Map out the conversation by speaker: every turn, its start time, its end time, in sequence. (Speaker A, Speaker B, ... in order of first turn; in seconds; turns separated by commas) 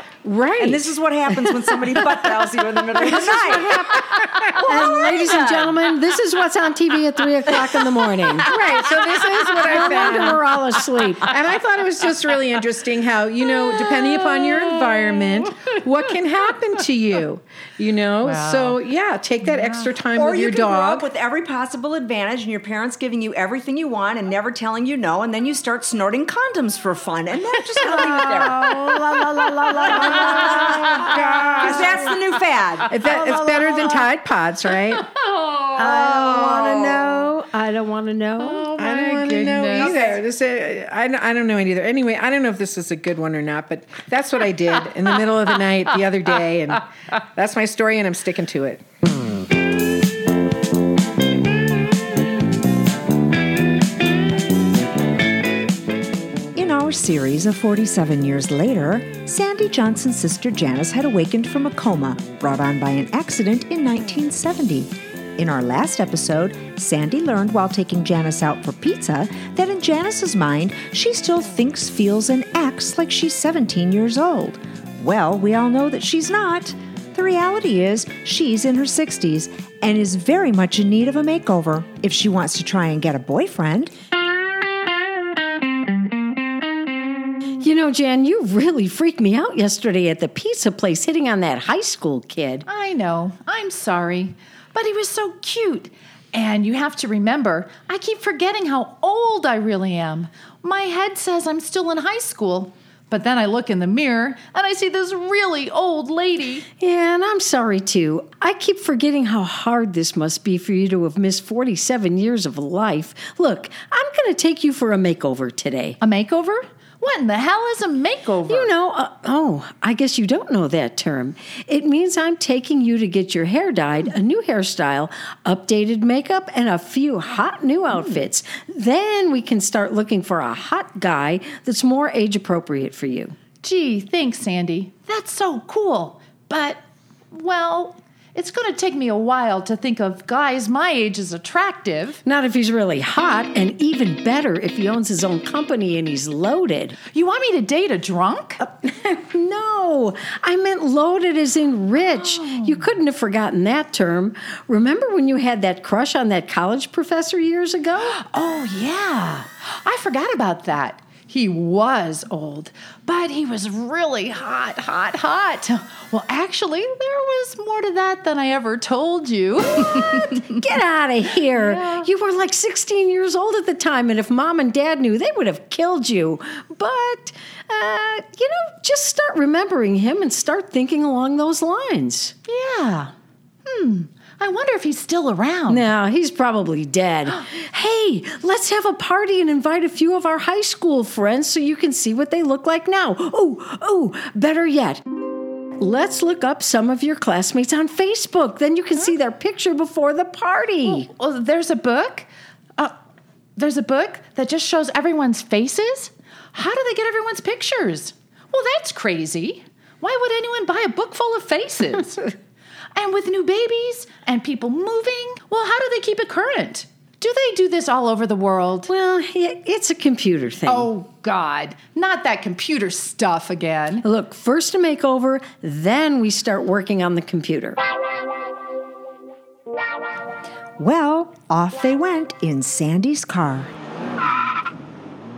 Speaker A: 0.2-0.9, Speaker B: 0.6-5.7, Speaker C: 1.5-1.7, Speaker C: 3.0-4.0, Speaker C: 4.6-8.5, Speaker A: 7.8-10.4, Speaker C: 9.5-11.3, Speaker A: 11.2-21.1, Speaker D: 14.4-14.6, Speaker D: 18.2-18.8, Speaker D: 19.4-19.9, Speaker B: 20.1-32.9, Speaker C: 27.9-32.1, Speaker A: 30.5-32.1, Speaker A: 32.9-35.1, Speaker C: 33.0-34.1, Speaker C: 35.7-38.8, Speaker D: 38.5-40.0, Speaker A: 38.7-48.8, Speaker B: 39.8-40.0, Speaker B: 56.5-83.9, Speaker C: 87.6-92.6, Speaker D: 92.7-106.6, Speaker C: 106.8-116.0, Speaker D: 116.0-118.7, Speaker C: 118.5-133.3, Speaker D: 127.9-128.2, Speaker D: 133.6-136.8, Speaker D: 137.3-142.2, Speaker C: 142.2-147.0, Speaker D: 147.1-148.6, Speaker C: 148.6-158.2, Speaker D: 151.9-152.9, Speaker D: 158.0-170.4, Speaker C: 170.4-182.3, Speaker D: 171.5-172.1, Speaker D: 182.5-183.1, Speaker D: 183.7-185.8, Speaker C: 185.7-195.0, Speaker C: 195.8-201.1, Speaker D: 200.8-202.9, Speaker D: 203.6-212.3, Speaker D: 212.9-218.9, Speaker C: 218.9-220.9, Speaker D: 220.7-224.0, Speaker C: 224.0-227.8, Speaker B: 230.8-233.7